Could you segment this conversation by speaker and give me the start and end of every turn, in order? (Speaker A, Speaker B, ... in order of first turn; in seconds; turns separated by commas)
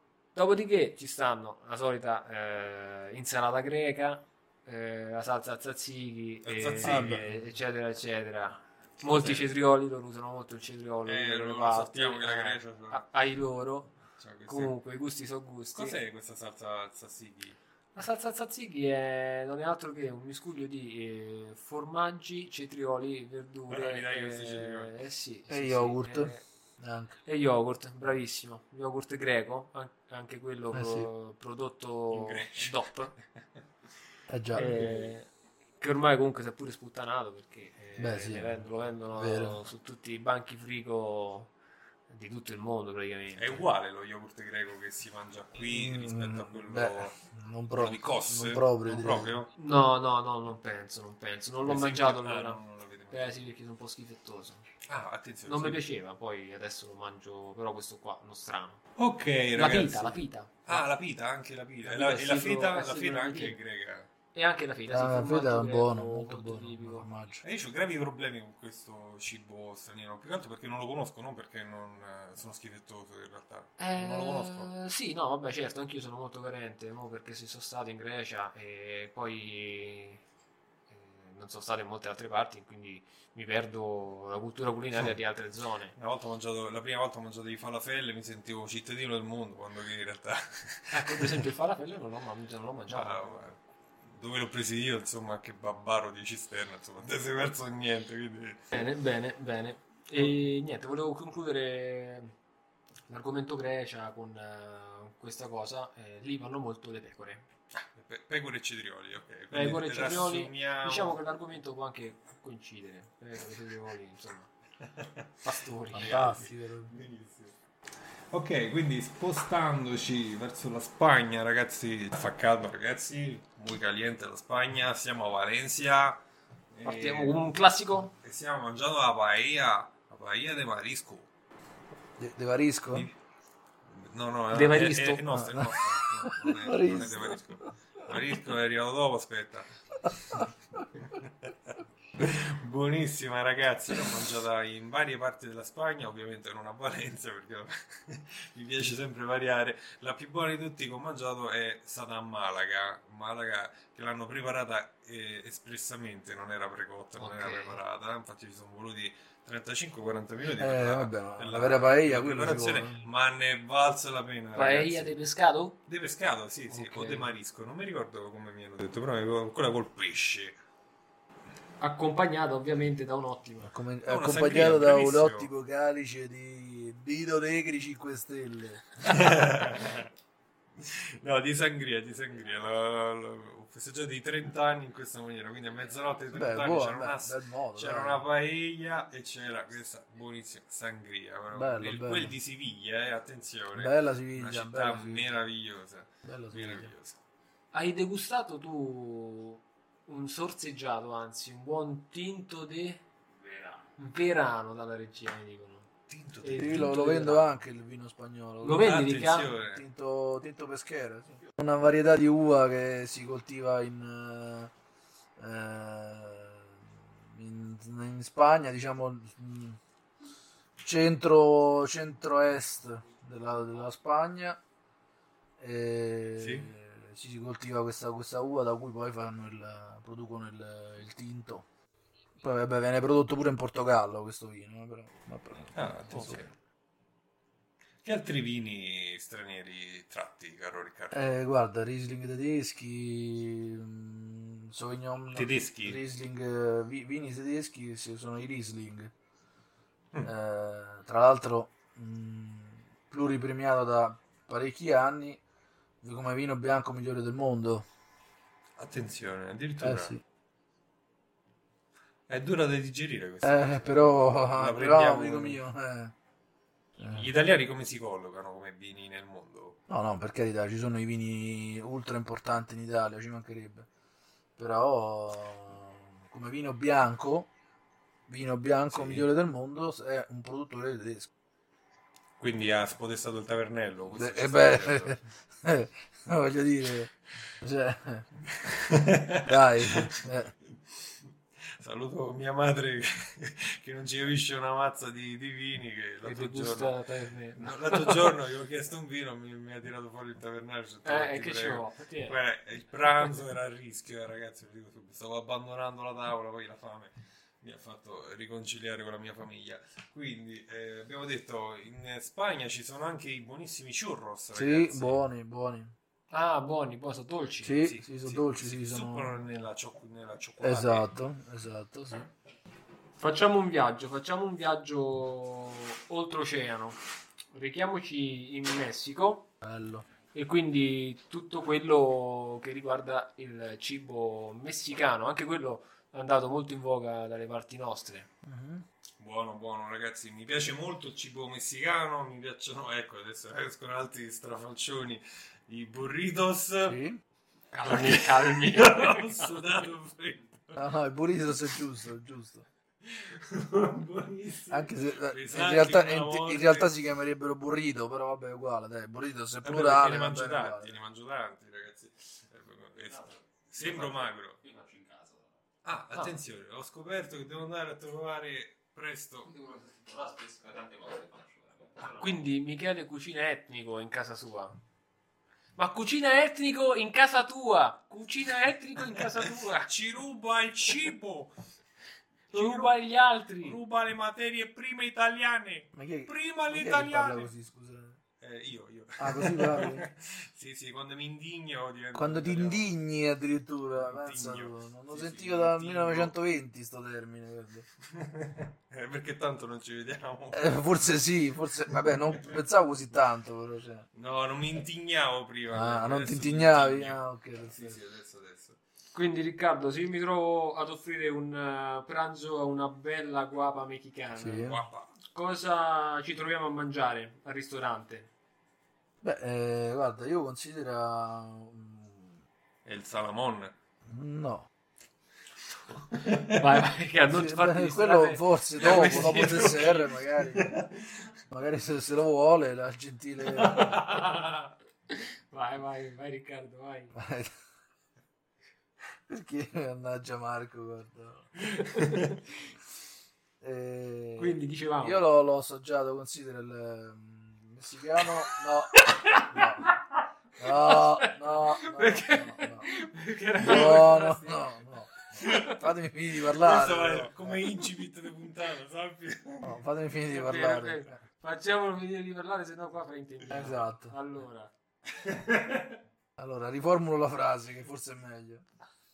Speaker A: 0.3-13.9, Speaker B: 6.4-7.2, Speaker C: 6.8-7.3, Speaker B: 9.1-9.4, Speaker B: 11.1-13.0, Speaker B: 14.2-14.7, Speaker A: 14.5-15.9, Speaker B: 15.7-17.6, Speaker A: 17.9-26.4, Speaker B: 23.7-24.9, Speaker C: 25.5-27.1, Speaker A: 27.2-33.1, Speaker C: 30.7-31.1, Speaker B: 32.1-32.8, Speaker C: 34.3-34.9, Speaker A: 34.5-35.3, Speaker B: 34.7-35.1, Speaker A: 35.8-41.5, Speaker C: 38.0-38.6, Speaker C: 39.1-39.6, Speaker A: 42.1-43.6, Speaker B: 43.4-47.1, Speaker C: 45.6-49.3, Speaker B: 47.8-49.5, Speaker A: 49.6-52.6, Speaker B: 51.6-53.4, Speaker A: 53.1-54.6, Speaker B: 54.9-55.8, Speaker A: 55.5-58.8, Speaker B: 59.0-64.1, Speaker A: 59.5-60.8, Speaker A: 61.8-63.6, Speaker A: 64.3-67.1, Speaker C: 64.9-67.4, Speaker B: 67.4-74.7, Speaker A: 73.8-80.2, Speaker A: 80.9-85.9, Speaker B: 85.9-91.4, Speaker A: 90.9-93.4, Speaker B: 92.9-98.7, Speaker A: 98.7-102.3, Speaker A: 103.1-107.4, Speaker B: 107.8-111.2, Speaker A: 109.5-114.5, Speaker B: 115.0-115.3, Speaker A: 115.4-116.2, Speaker C: 115.9-116.9, Speaker B: 116.0-117.5, Speaker B: 118.3-126.2, Speaker B: 126.7-127.4, Speaker A: 126.8-128.1, Speaker B: 128.2-131.3, Speaker C: 132.2-133.1, Speaker B: 133.9-139.7, Speaker A: 134.5-135.2, Speaker C: 135.3-138.1, Speaker C: 140.0-140.4, Speaker B: 141.0-165.1, Speaker A: 157.2-157.8, Speaker C: 160.6-163.0, Speaker A: 164.5-165.8, Speaker B: 165.9-170.6, Speaker A: 166.7-167.2, Speaker A: 171.8-173.7, Speaker C: 173.6-179.1, Speaker B: 174.1-175.5, Speaker B: 179.0-180.1, Speaker B: 180.8-197.2, Speaker C: 186.3-188.2, Speaker C: 191.5-192.3, Speaker C: 193.7-195.3, Speaker C: 196.2-196.9, Speaker A: 197.7-203.0, Speaker D: 203.3-203.9, Speaker A: 204.0-205.9, Speaker B: 206.1-206.9, Speaker A: 206.4-207.5, Speaker C: 206.5-209.0, Speaker A: 208.6-209.5, Speaker B: 208.7-209.8, Speaker C: 209.7-214.7, Speaker C: 215.4-219.8, Speaker C: 220.8-224.6, Speaker C: 225.6-231.7, Speaker B: 226.4-226.7, Speaker C: 232.4-236.4, Speaker B: 235.7-236.5, Speaker B: 238.0-241.2, Speaker C: 241.1-249.1, Speaker B: 245.3-246.0, Speaker C: 250.2-255.4, Speaker C: 256.0-257.9, Speaker B: 258.8-260.1, Speaker C: 259.8-260.2, Speaker B: 262.3-265.6, Speaker C: 263.4-266.1, Speaker C: 267.0-267.3, Speaker B: 267.0-269.8, Speaker C: 269.9-273.9, Speaker C: 274.6-277.5, Speaker C: 278.3-281.3, Speaker B: 278.9-279.3, Speaker B: 282.4-285.2, Speaker C: 284.1-288.3, Speaker B: 288.7-290.2, Speaker C: 289.4-290.5, Speaker B: 291.8-297.0, Speaker A: 296.2-298.3, Speaker B: 297.6-315.2, Speaker A: 301.0-302.4, Speaker C: 314.5-315.9, Speaker A: 316.3-317.8, Speaker C: 317.6-319.3, Speaker B: 317.8-321.1, Speaker C: 320.6-322.3, Speaker A: 323.2-327.0, Speaker A: 327.5-329.5, Speaker C: 329.6-330.1, Speaker A: 330.3-338.3, Speaker C: 338.4-338.8, Speaker B: 339.2-347.0, Speaker C: 346.9-347.2, Speaker A: 347.7-349.3, Speaker B: 347.9-350.9, Speaker C: 350.8-352.6, Speaker B: 353.0-356.9, Speaker C: 354.7-361.0, Speaker B: 359.6-364.6, Speaker D: 363.0-365.6, Speaker B: 365.8-369.5, Speaker D: 369.4-372.4, Speaker A: 372.1-374.8, Speaker A: 375.8-379.9, Speaker B: 379.8-381.5, Speaker B: 382.5-382.9, Speaker A: 382.5-383.8, Speaker B: 383.6-387.5, Speaker C: 385.9-388.2, Speaker B: 388.4-392.9, Speaker C: 389.2-390.1, Speaker C: 392.1-397.9, Speaker B: 394.0-396.3, Speaker B: 398.1-400.8, Speaker C: 400.5-404.1, Speaker B: 404.1-408.8, Speaker C: 405.7-408.0, Speaker A: 409.1-414.7, Speaker C: 414.4-414.8, Speaker B: 414.6-415.1, Speaker A: 415.3-418.3, Speaker C: 419.2-422.4, Speaker B: 422.8-423.7, Speaker C: 424.1-424.7, Speaker B: 426.1-426.5, Speaker A: 426.5-430.0, Speaker C: 427.2-430.8, Speaker B: 428.8-430.0, Speaker B: 430.5-430.9, Speaker C: 431.5-434.0, Speaker B: 433.6-434.0, Speaker A: 434.0-434.5, Speaker A: 435.1-437.1, Speaker C: 437.1-437.5, Speaker C: 439.3-441.5, Speaker A: 441.8-442.2, Speaker C: 443.6-449.9, Speaker A: 444.4-445.2, Speaker A: 448.9-449.9, Speaker C: 450.6-452.9, Speaker A: 450.7-454.7, Speaker C: 453.6-457.6, Speaker B: 455.4-455.8, Speaker B: 456.4-459.8, Speaker C: 459.6-461.2, Speaker A: 460.3-464.7, Speaker C: 463.5-464.1, Speaker B: 465.2-466.0, Speaker C: 466.4-468.6